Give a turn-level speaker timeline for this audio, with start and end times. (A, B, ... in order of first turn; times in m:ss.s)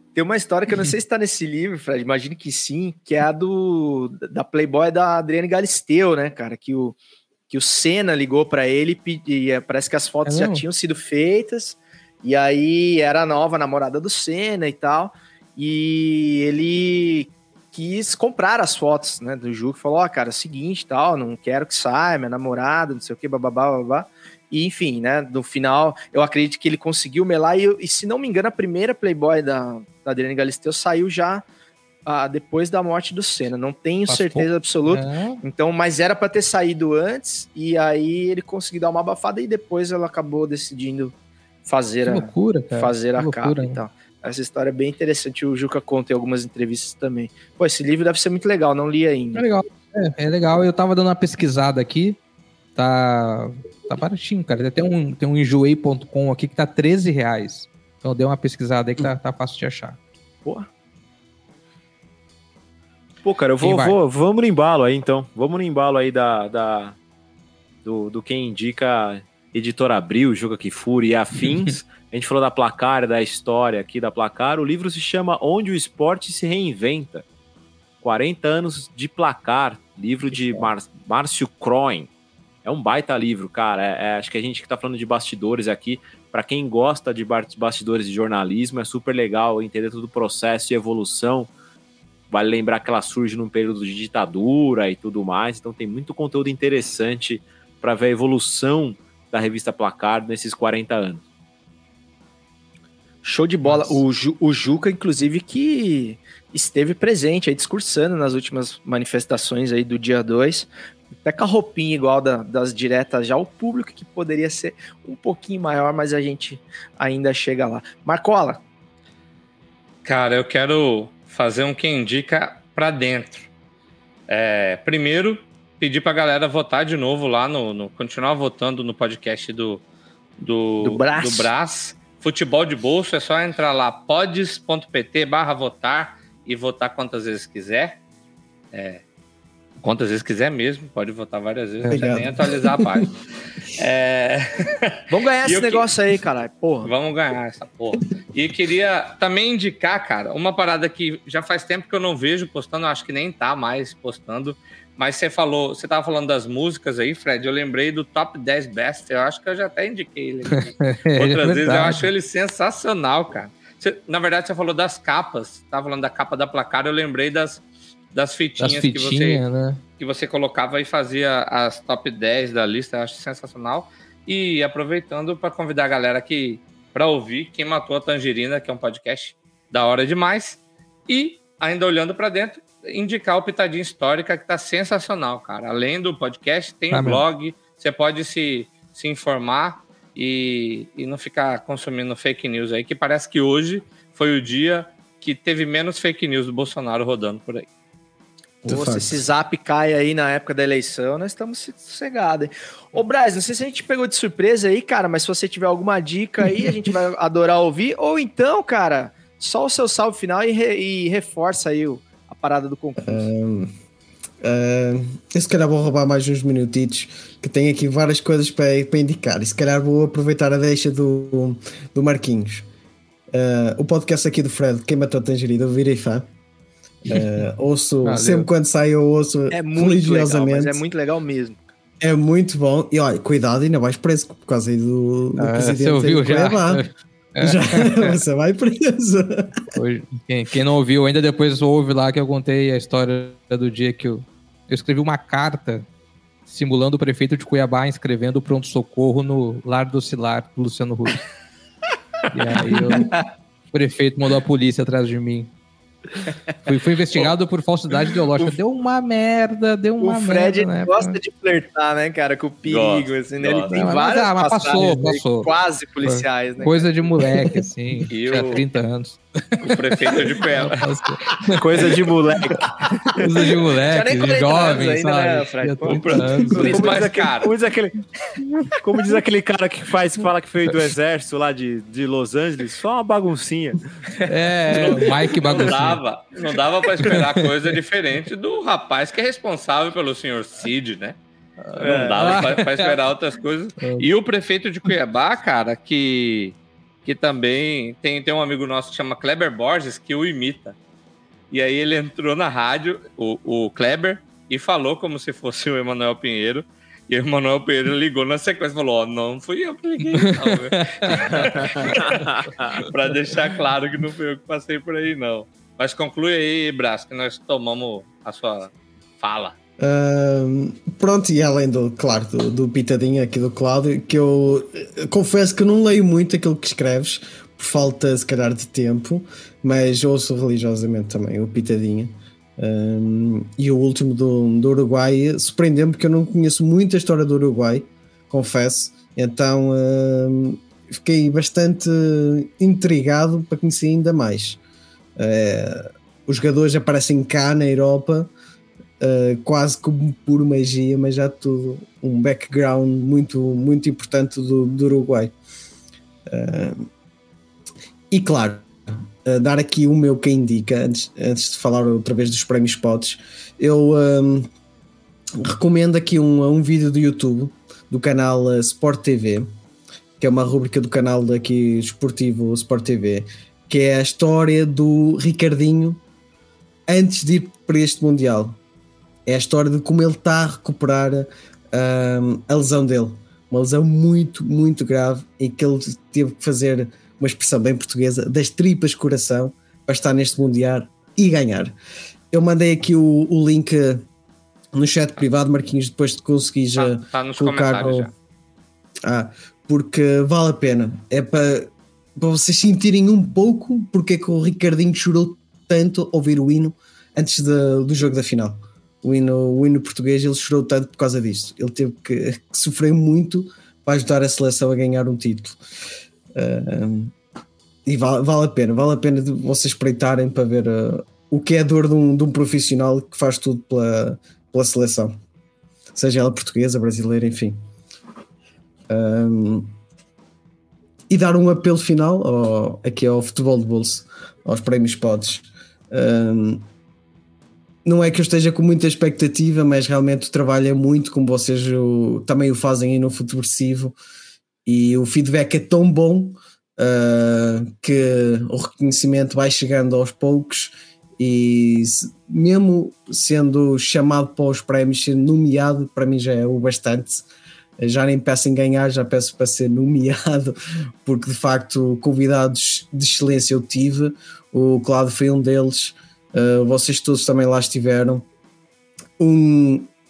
0:00.1-0:07.0 A
0:07.5-0:31.4 A
0:10.2-0:10.6 B
0:32.0-0:41.1 A
0:34.1-0:35.4 B
0:41.6-0:49.4 A
0:42.0-0:43.8 B
0:49.3-0:52.2 B
0:52.8-1:00.0 B
1:03.2-1:07.0 C
1:03.6-1:04.0 B
1:07.8-1:17.2 C
1:18.0-1:22.1 C
1:22.6-1:31.5 C
1:32.3-1:41.2 C
1:43.2-1:50.7 A
1:51.2-1:58.6 A
2:00.0-2:03.5 D
2:04.3-2:09.8 D
2:10.4-2:18.0 D
2:10.8-2:11.5 A
2:18.7-2:19.0 D
2:19.8-2:23.1 D
2:21.9-2:23.1 E
2:23.8-2:25.9 D
2:25.1-2:26.9 A
2:26.8-2:47.6 D
2:40.8-2:42.0 B
2:48.1-2:49.4 D
2:48.6-2:49.8 B
2:50.0-3:17.7 D
3:06.9-3:07.2 B
3:18.6-3:19.2 E
3:18.7-3:33.3 A
3:33.0-3:33.7 E
3:34.4-3:42.7 E
3:43.3-3:46.3 E
3:47.1-3:50.8 E
3:48.0-3:48.5 B
3:49.5-3:51.6 A
3:52.0-3:56.8 E
3:55.4-3:58.2 B
3:57.4-3:59.6 E
3:59.7-4:05.8 B
4:06.5-4:11.2 B
4:12.3-4:13.2 B
4:13.7-4:15.5 B
4:16.6-4:21.2 B
4:20.0-4:26.9 A
4:22.6-4:23.8 D
4:23.7-4:25.5 B
4:26.0-4:29.9 B
4:28.1-4:28.6 D
4:29.6-4:30.8 D
4:30.5-4:31.6 B
4:31.6-4:32.7 C
4:33.0-4:36.9 A
4:33.2-4:36.7 B
4:36.1-4:37.5 D
4:36.5-4:38.0 C
4:38.8-4:43.8 C
4:44.3-4:46.0 B
4:44.7-4:51.2 D
4:51.6-4:53.0 B
4:51.8-5:00.7 D
4:51.8-4:52.6 C
4:53.8-4:54.1 B
5:01.5-5:12.2 D
5:10.2-5:11.9 B
5:11.4-5:12.7 C
5:12.8-5:19.6 D
5:19.8-5:44.6 E
5:45.2-5:48.3 E
5:49.0-5:55.3 E
5:56.3-5:56.9 E
5:58.1-5:58.7 E
5:59.2-6:04.5 E
6:05.4-6:09.5 E
6:10.2-6:16.0 E
6:16.9-6:18.6 E
6:19.2-6:31.7 E
6:32.3-6:34.0 E
6:34.7-6:38.1 E
6:36.7-6:38.1 D
6:39.0-6:55.6 E
6:56.3-6:57.1 E
6:57.8-7:05.2 E
7:05.9-7:07.6 E
7:08.9-7:09.8 E
7:11.1-7:16.6 E
7:17.8-7:24.0 E
7:24.6-7:37.2 E
7:37.8-7:48.2 E
7:49.2-7:49.9 E